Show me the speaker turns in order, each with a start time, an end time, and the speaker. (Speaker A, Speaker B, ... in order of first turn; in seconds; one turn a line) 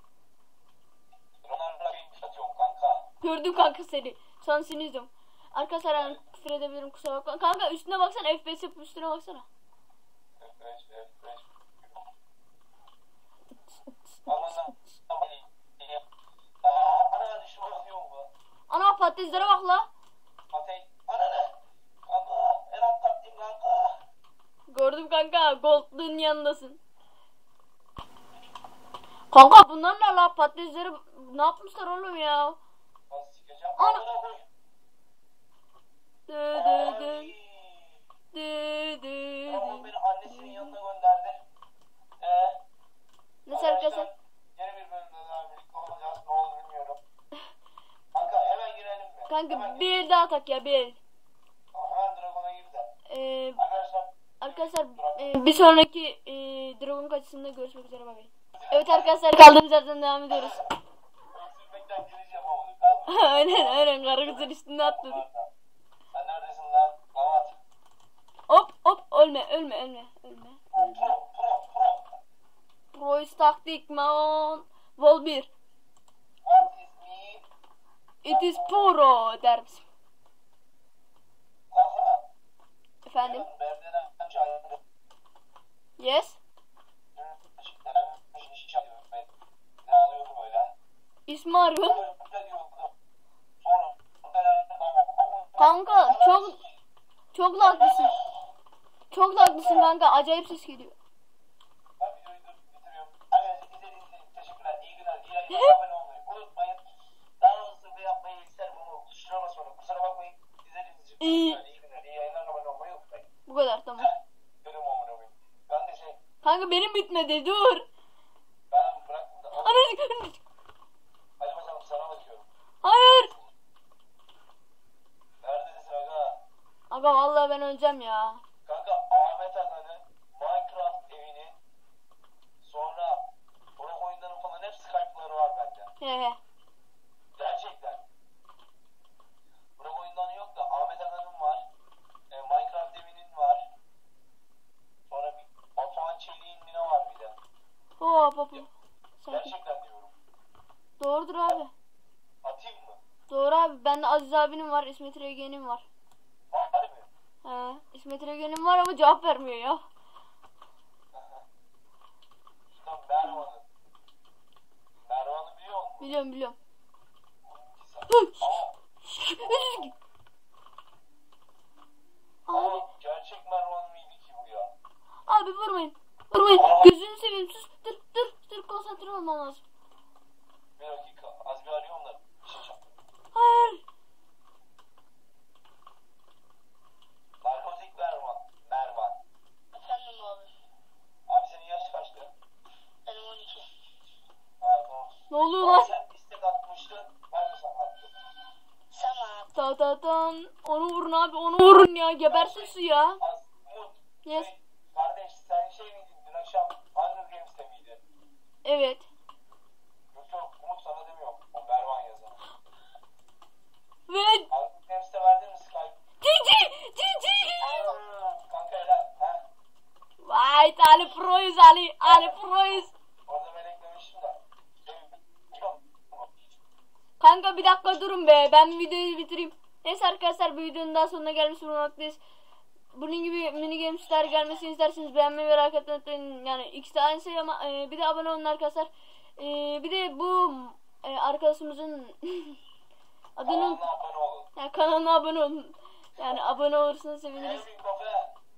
Speaker A: 1.4-3.1
Speaker B: 3.2-9.5
Speaker A: 10.4-12.1
Speaker A: 14.2-16.0
Speaker A: 16.6-18.3
Speaker B: 18.7-19.9
Speaker A: 20.5-21.6
Speaker A: 22.1-24.0
Speaker B: 24.7-26.8
Speaker B: 29.3-32.6
Speaker A: 33.1-34.4
Speaker B: 33.8-34.0
Speaker B: 36.3-37.3
Speaker A: 36.5-38.0
Speaker B: 38.3-40.8
Speaker A: 39.5-41.4
Speaker A: 42.2-42.6
Speaker B: 43.5-44.1
Speaker A: 43.5-47.0
Speaker A: 48.1-49.9
Speaker B: 49.3-51.0
Speaker A: 51.7-52.9
Speaker B: 53.1-53.6
Speaker A: 53.5-55.5
Speaker B: 54.4-60.7
Speaker A: 58.6-59.1
Speaker A: 60.3-60.7
Speaker A: 61.3-65.5
Speaker B: 63.1-65.2
Speaker A: 66.1-67.6
Speaker B: 68.5-71.1
Speaker A: 70.7-72.1
Speaker B: 72.9-75.5
Speaker A: 76.4-77.5
Speaker B: 78.2-79.8
Speaker A: 78.2-79.0
Speaker A: 81.7-82.3
Speaker B: 83.0-83.5
Speaker A: 83.2-84.8
Speaker B: 86.0-86.4
Speaker A: 87.1-89.3
Speaker A: 89.8-90.7
Speaker B: 91.3-92.0
Speaker A: 91.8-92.9
Speaker A: 93.6-96.6
Speaker B: 95.6-96.6
Speaker B: 97.3-98.1
Speaker A: 97.6-98.4
Speaker B: 99.1-101.0
Speaker A: 99.4-99.9
Speaker A: 102.0-106.8
Speaker B: 105.5-105.8
Speaker A: 107.4-113.2
Speaker B: 111.2-111.6
Speaker B: 113.5-114.1
Speaker A: 114.0-116.2
Speaker B: 116.4-117.8
Speaker A: 118.7-119.9
Speaker B: 119.6-120.4
Speaker A: 121.4-122.5
Speaker B: 122.8-123.3
Speaker A: 123.0-123.5
Speaker A: 125.4-126.4
Speaker B: 126.9-128.4
Speaker A: 128.7-131.6
Speaker A: 132.6-133.2
Speaker A: 133.8-135.9
Speaker B: 136.0-136.4
Speaker A: 137.3-138.0
Speaker A: 139.8-141.7
Speaker A: 142.3-143.7
Speaker A: 145.1-147.4
Speaker B: 148.0-149.5
Speaker A: 149.3-150.1
Speaker B: 151.0-151.7
Speaker A: 152.4-153.0
Speaker B: 153.3-155.8
Speaker A: 156.5-157.1
Speaker B: 157.4-159.8
Speaker A: 161.1-161.4
Speaker A: 162.7-163.7
Speaker A: 165.0-166.1
Speaker B: 166.0-166.6
Speaker A: 167.4-168.8
Speaker B: 168.1-169.9
Speaker A: 169.4-169.9
Speaker B: 172.4-172.9
Speaker A: 172.5-174.7
Speaker B: 175.3-179.6
Speaker A: 176.5-176.9
Speaker A: 180.8-182.8
Speaker B: 183.3-183.8
Speaker A: 187.4-189.2
Speaker C: 189.7-190.5
Speaker A: 191.3-192.3
Speaker C: 193.1-193.7
Speaker A: 194.6-198.1
Speaker B: 195.3-195.9
Speaker C: 198.9-199.5
Speaker B: 199.5-203.2
Speaker A: 202.3-208.0
Speaker B: 204.2-204.5
Speaker B: 208.6-209.1
Speaker A: 210.1-212.4
Speaker B: 214.1-214.5
Speaker A: 214.5-216.0
Speaker B: 216.2-217.8
Speaker C: 217.6-218.0
Speaker A: 217.6-219.4
Speaker B: 220.2-222.9
Speaker A: 222.0-226.3
Speaker B: 227.2-232.2
Speaker B: 232.9-242.6
Speaker B: 243.3-243.8
Speaker A: 243.4-244.5
Speaker B: 244.6-247.7
Speaker A: 246.2-246.4
Speaker A: 247.3-248.3